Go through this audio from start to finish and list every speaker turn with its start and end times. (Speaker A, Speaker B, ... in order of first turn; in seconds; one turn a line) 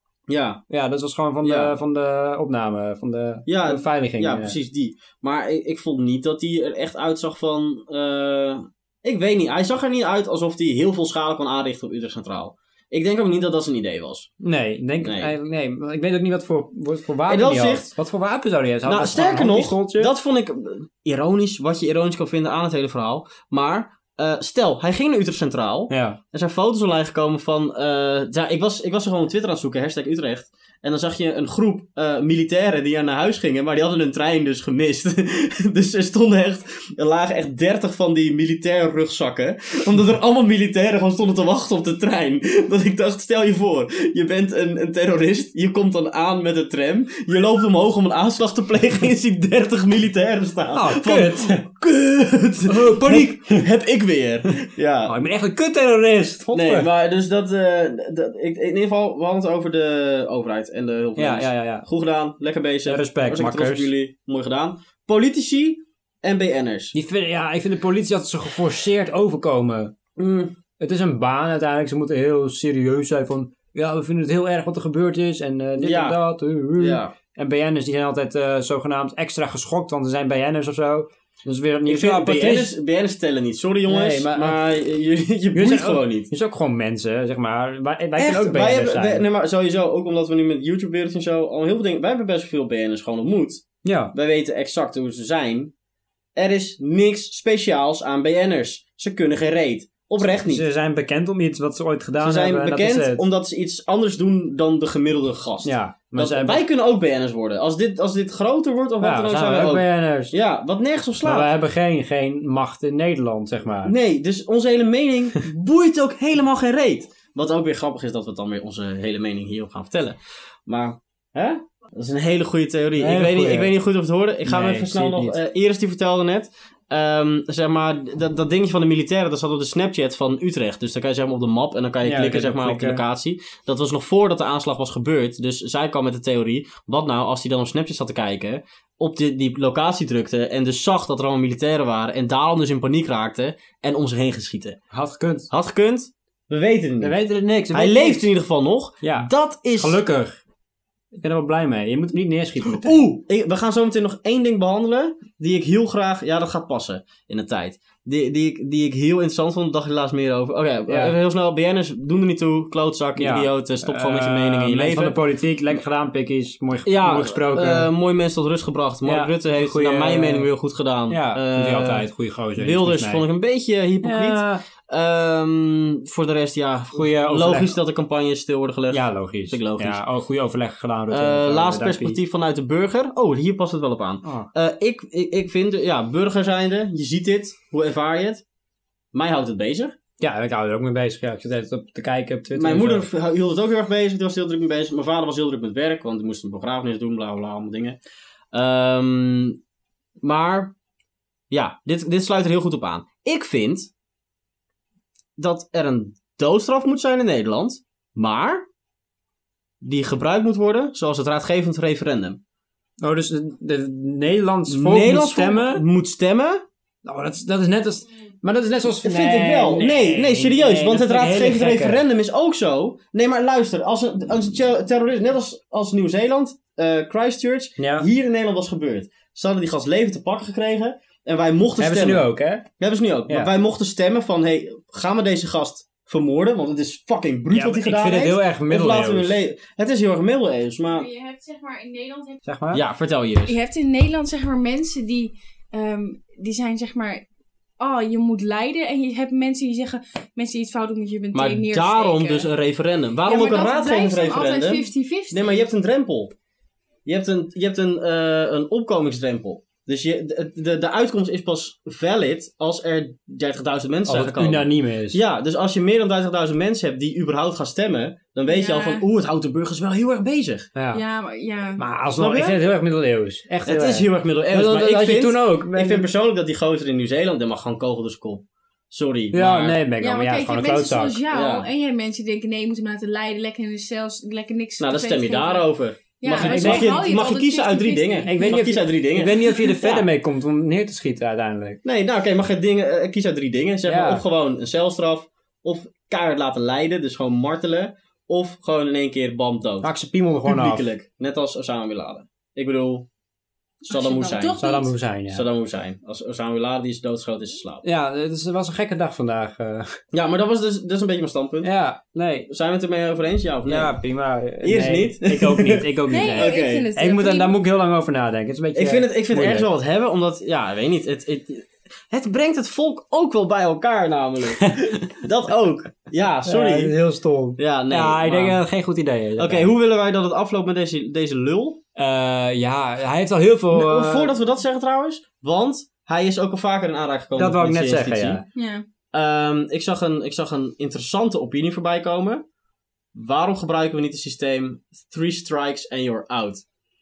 Speaker A: 0.3-0.6
Speaker B: 0.7-4.5
Speaker A: 1.4-1.7
Speaker A: 3.5-14.3
Speaker B: 14.4-20.1
Speaker A: 15.0-15.3
Speaker A: 17.3-17.9
Speaker A: 18.8-55.1
Speaker B: 25.9-26.2
Speaker B: 50.7-51.6
Speaker B: 52.7-53.6
Speaker B: 55.0-56.9
Speaker A: 56.5-66.9
Speaker B: 61.2-61.8
Speaker B: 62.9-63.9
Speaker B: 66.9-69.9
Speaker A: 70.2-70.5
Speaker B: 70.8-82.7
Speaker A: 75.8-76.2
Speaker A: 76.8-77.1
Speaker A: 81.9-86.3
Speaker B: 83.8-84.6
Speaker B: 85.5-89.2
Speaker A: 88.2-95.7
Speaker B: 93.8-94.1
Speaker A: 96.3-100.6
Speaker B: 100.4-103.2
Speaker A: 102.2-111.5
Speaker B: 105.6-106.6
Speaker B: 109.0-110.3
Speaker B: 111.2-113.9
Speaker A: 113.8-144.8
Speaker B: 123.0-123.7
Speaker B: 124.5-125.4
Speaker B: 132.0-133.0
Speaker B: 144.9-145.5
Speaker A: 145.5-147.1
Speaker B: 147.0-148.3
Speaker A: 147.7-150.0
Speaker B: 149.0-150.4
Speaker B: 151.1-153.1
Speaker A: 152.6-165.2
Speaker B: 160.9-161.1
Speaker B: 163.2-167.9
Speaker A: 166.8-180.0
Speaker B: 169.0-170.5
Speaker B: 171.1-173.2
Speaker B: 174.0-174.6
Speaker B: 176.9-177.7
Speaker B: 178.9-182.2
Speaker A: 181.1-188.4
Speaker B: 184.2-184.5
Speaker A: 189.1-189.9
Speaker B: 190.2-193.1
Speaker A: 192.5-198.0
Speaker A: 198.5-199.6
Speaker A: 200.2-200.7
Speaker A: 201.5-203.9
Speaker A: 205.4-208.6
Speaker A: 209.8-212.4
Speaker B: 213.0-215.8
Speaker A: 214.7-216.6
Speaker B: 217.0-222.0
Speaker A: 218.8-241.1
Speaker B: 227.8-228.1
Speaker B: 231.8-232.6
Speaker B: 237.5-239.4
Speaker C: 240.9-242.4
Speaker B: 242.4-242.8
Speaker A: 242.7-243.6
Speaker C: 243.4-247.2
Speaker C: 247.8-252.5
Speaker A: 251.3-256.3
Speaker C: 253.2-255.6
Speaker A: 257.1-270.7
Speaker B: 264.1-265.2
Speaker C: 268.5-269.0
Speaker B: 270.7-271.0
Speaker C: 270.9-271.8
Speaker B: 271.8-276.1
Speaker A: 272.2-272.6
Speaker A: 273.6-279.8
Speaker B: 279.3-281.2
Speaker C: 280.0-288.6
Speaker A: 281.3-281.7
Speaker A: 284.8-290.1
Speaker B: 286.3-287.0
Speaker B: 288.2-291.8
Speaker A: 291.8-299.9
Speaker B: 293.9-294.2
Speaker B: 299.8-300.9
Speaker A: 300.4-303.1
Speaker C: 303.8-304.9
Speaker A: 303.9-304.6
Speaker B: 304.6-305.5
Speaker A: 305.3-307.8
Speaker B: 307.8-309.9
Speaker A: 310.1-311.7
Speaker B: 311.6-312.5
Speaker A: 312.5-313.9
Speaker B: 313.7-319.7
Speaker A: 314.6-316.9
Speaker C: 316.1-317.5
Speaker A: 318.7-326.9
Speaker B: 324.6-325.0
Speaker B: 326.4-329.7
Speaker A: 327.6-328.6
Speaker A: 329.4-331.8
Speaker B: 331.9-334.3
Speaker A: 333.7-338.4
Speaker B: 337.4-338.4
Speaker C: 338.5-338.8
Speaker A: 339.1-342.4
Speaker A: 343.1-346.6